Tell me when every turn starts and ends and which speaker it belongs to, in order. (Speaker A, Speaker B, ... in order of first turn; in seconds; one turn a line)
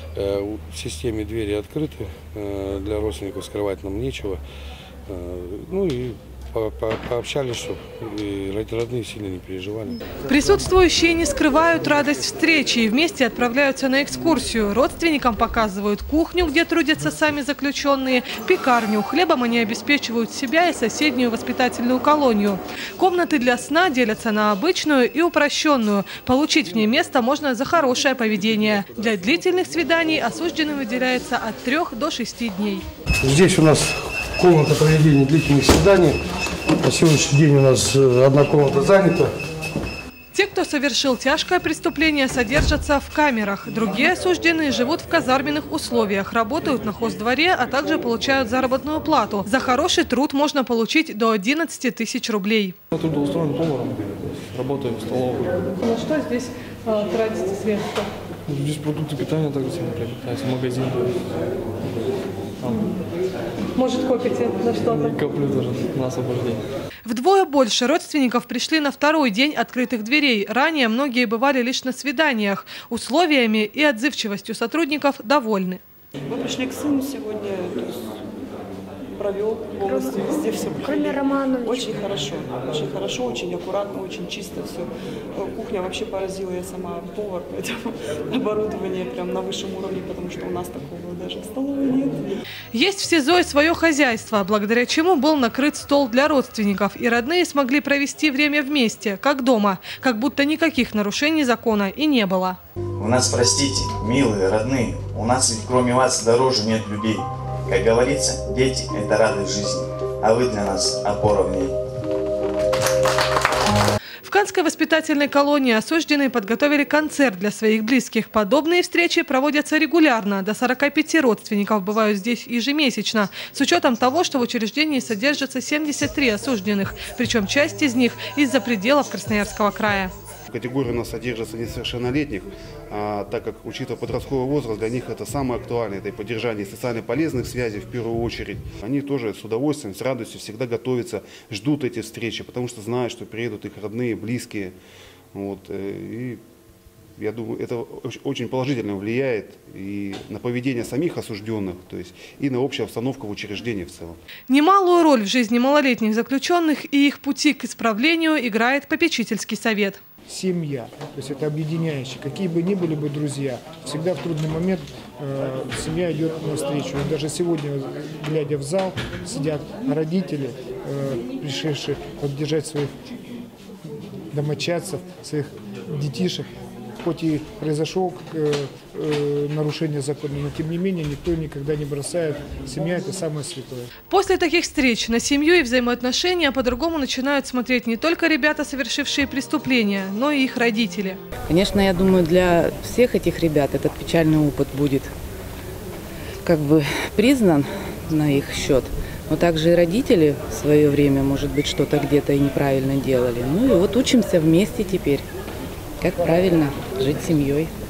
Speaker A: 0.1-4.4
Speaker A: 5.1-10.0
Speaker B: 10.3-32.8
Speaker C: 33.2-36.2
Speaker C: 36.8-39.3
Speaker B: 40.3-52.8
Speaker D: 52.9-55.7
Speaker B: 55.9-58.0
Speaker D: 58.5-61.4
Speaker D: 62.6-63.0
Speaker B: 63.9-65.0
Speaker D: 64.7-66.6
Speaker B: 67.0-75.8
Speaker E: 76.3-78.1
Speaker E: 79.1-92.4
Speaker B: 92.7-102.6
Speaker F: 103.0-111.7
Speaker B: 114.2-130.1
Speaker G: 130.5-144.7
Speaker G: 145.3-146.4
Speaker G: 147.2-154.2
Speaker B: 154.5-160.0
Speaker H: 160.3-172.9
Speaker H: 174.3-176.5
Speaker H: 177.0-183.9
Speaker B: 184.1-191.2
Speaker I: 191.5-195.1
Speaker I: 196.4-205.2
Speaker I: 206.0-207.7